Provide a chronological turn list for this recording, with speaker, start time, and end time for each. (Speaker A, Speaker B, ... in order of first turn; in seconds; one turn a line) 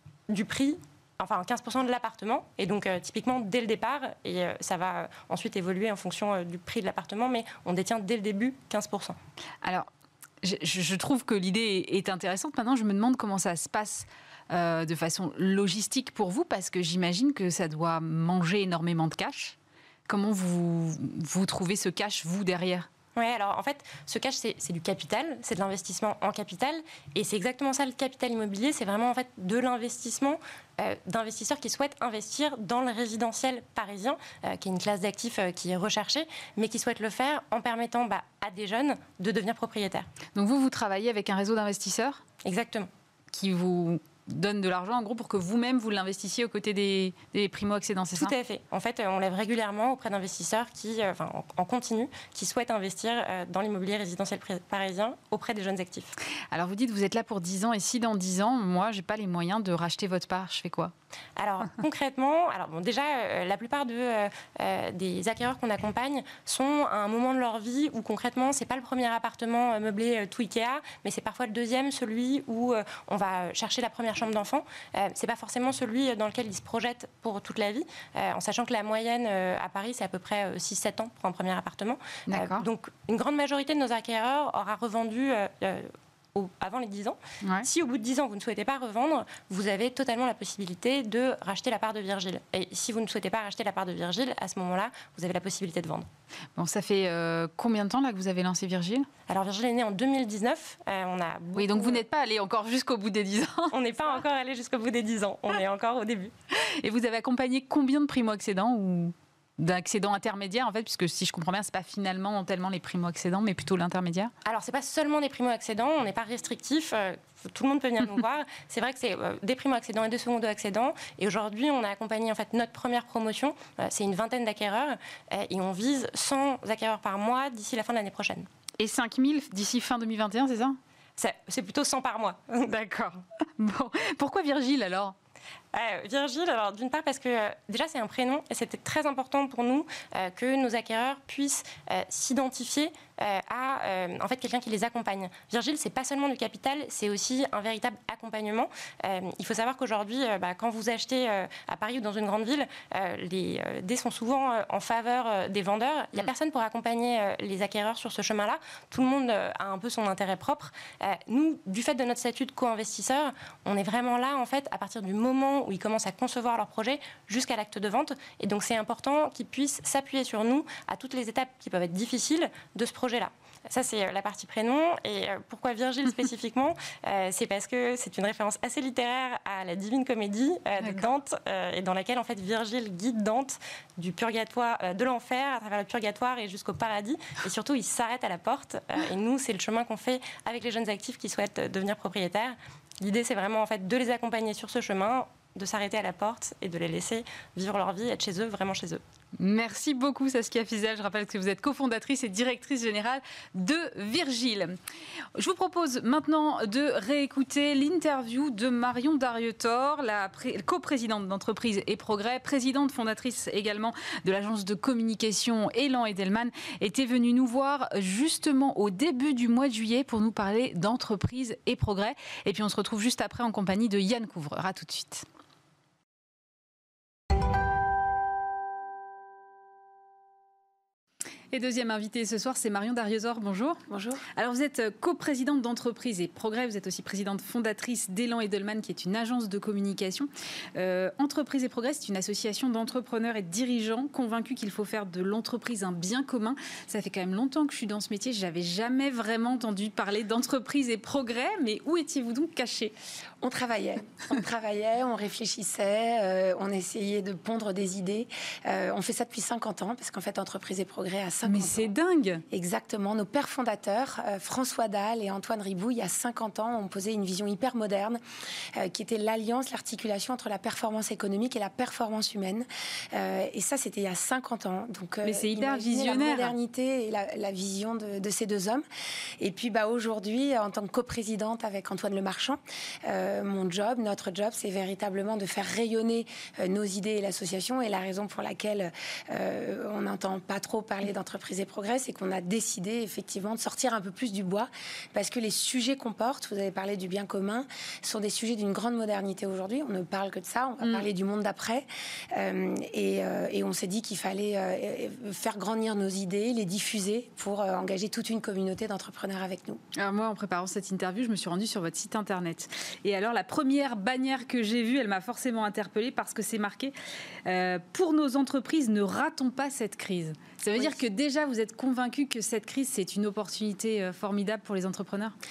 Speaker A: 0.3-9.2
Speaker B: 9.6-9.9
Speaker B: 10.4-19.6
Speaker B: 20.1-22.9
Speaker A: 23.2-40.1
Speaker B: 40.4-42.2
Speaker A: 42.4-42.9
Speaker B: 43.3-48.3
Speaker A: 48.1-56.1
Speaker B: 56.5-60.9
Speaker A: 61.4-96.1
Speaker B: 82.3-82.7
Speaker B: 87.4-87.7
Speaker B: 96.6-99.1
Speaker A: 99.3-102.0
Speaker B: 101.6-103.8
Speaker A: 103.7-106.3
Speaker B: 106.8-114.3
Speaker A: 114.5-128.5
Speaker B: 128.8-130.8
Speaker A: 131.2-132.7
Speaker B: 132.6-135.2
Speaker A: 135.7-199.0
Speaker B: 180.8-181.1
Speaker B: 199.4-204.8
Speaker B: 205.4-225.2
Speaker B: 231.5-233.8
Speaker C: 233.9-234.2
Speaker B: 234.3-252.9
Speaker C: 253.4-261.9
Speaker B: 261.5-262.4
Speaker C: 262.5-268.2
Speaker C: 268.8-278.9
Speaker B: 275.2-276.5
Speaker C: 279.4-309.8
Speaker B: 300.8-301.1
Speaker B: 310.0-316.9
Speaker B: 317.5-325.4
Speaker C: 320.8-321.0